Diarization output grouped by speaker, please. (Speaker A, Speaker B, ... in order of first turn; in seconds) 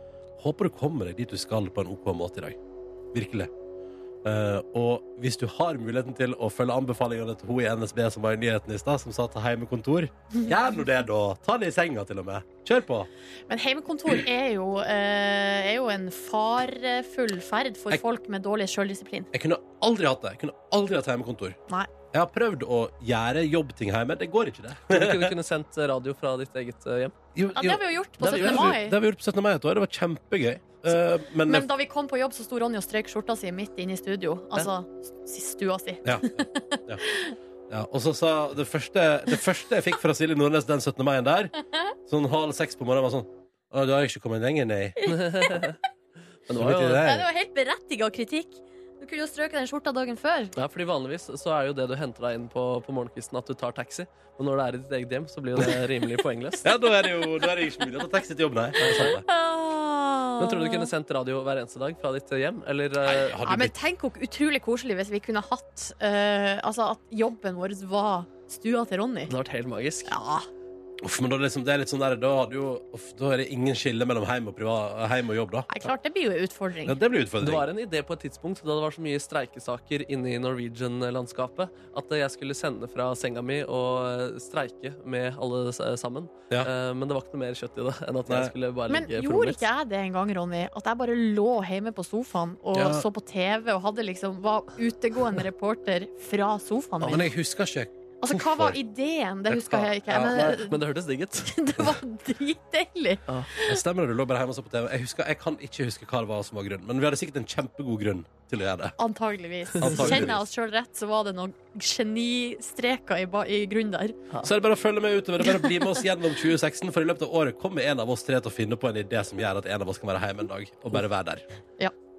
Speaker A: 0.4-2.6, 3.1-3.5, 4.2-13.1, 19.3-21.6, 22.1-25.4, 27.4-31.7, 36.0-37.0, 37.7-41.5, 42.1-45.0, 46.5-47.3, 56.6-59.2, 63.0-63.7, 71.0-75.7, 76.9-77.7, 88.3-88.5, 92.7-93.0, 97.0-98.8, 99.5-100.6, 103.7-109.0, 109.8-110.4, 114.4-121.5
Speaker B: 13.5-19.3, 27.5-29.0, 31.5-37.3, 45.0-45.6, 47.0-50.5, 59.2-60.9, 63.5-69.3, 70.1-70.5, 75.7-77.0, 88.9-97.3, 98.2-100.8, 101.5-103.8, 109.0-114.2
Speaker C: 24.9-27.1, 28.2-28.7, 45.1-45.8, 46.5-47.1, 50.6-56.7, 58.8-59.1, 60.4-63.4, 69.3-70.1, 77.4-89.6, 100.3-101.5, 109.8-110.3